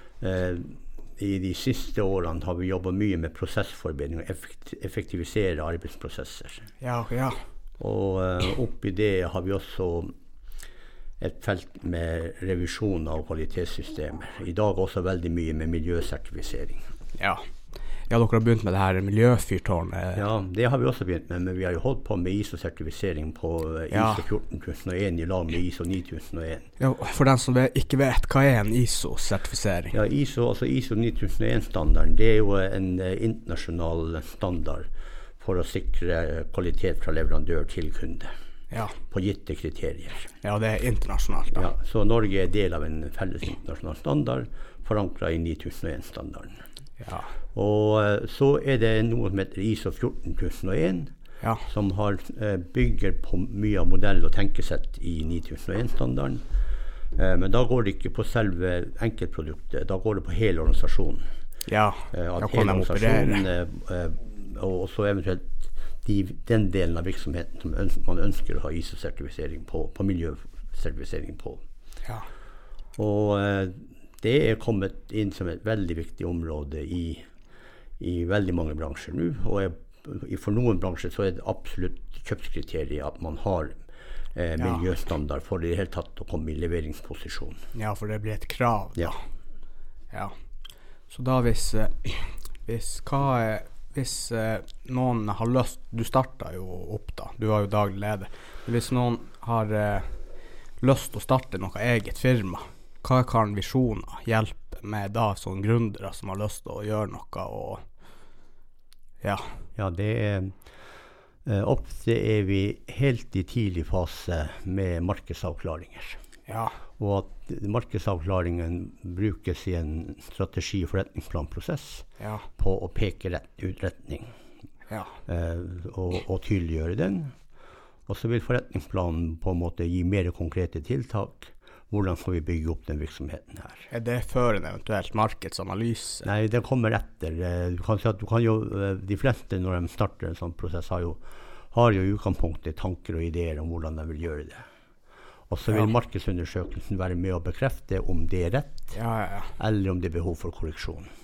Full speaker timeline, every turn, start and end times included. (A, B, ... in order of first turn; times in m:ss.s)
0:00.2-0:06.7 A
0:06.8-0:07.4 B
0:07.8-0:10.1 A
0:11.2-0:16.8 A
0:17.2-0:17.4 B
0:18.1-0:20.2 B
0:20.1-0:26.7 A
0:23.9-0:24.2 B
0:26.8-0:30.0 B
0:29.9-0:34.9 A
0:35.4-0:38.3 A
0:38.7-0:39.0 B
0:39.1-0:40.3 A
0:40.4-0:41.7 B
0:41.5-0:46.6 A
0:47.0-0:47.3 B
0:47.5-0:51.1 A
0:51.4-0:51.7 B
0:51.6-0:56.4 A
0:57.1-1:01.2 A
1:01.7-1:03.4 B
1:02.1-1:11.6 A
1:13.0-1:17.2 A
1:18.0-1:23.7 A
1:24.3-1:27.6 A
1:24.6-1:24.8 B
1:27.7-1:29.2 B
1:31.1-1:40.2 B
1:40.8-1:47.8 B
1:49.2-1:49.5 B
1:49.8-1:50.6 A
1:51.4-1:56.2 A
1:56.5-1:56.8 B
1:57.0-2:02.0 A
2:02.2-2:02.5 B
2:02.6-2:04.3 A
2:04.9-2:05.2 B
2:05.3-2:07.3 A
2:08.1-2:13.9 A
2:13.9-2:16.3 B
2:16.2-2:24.6 A
2:25.5-2:28.9 A
2:28.9-2:29.5 B
2:29.6-2:31.1 A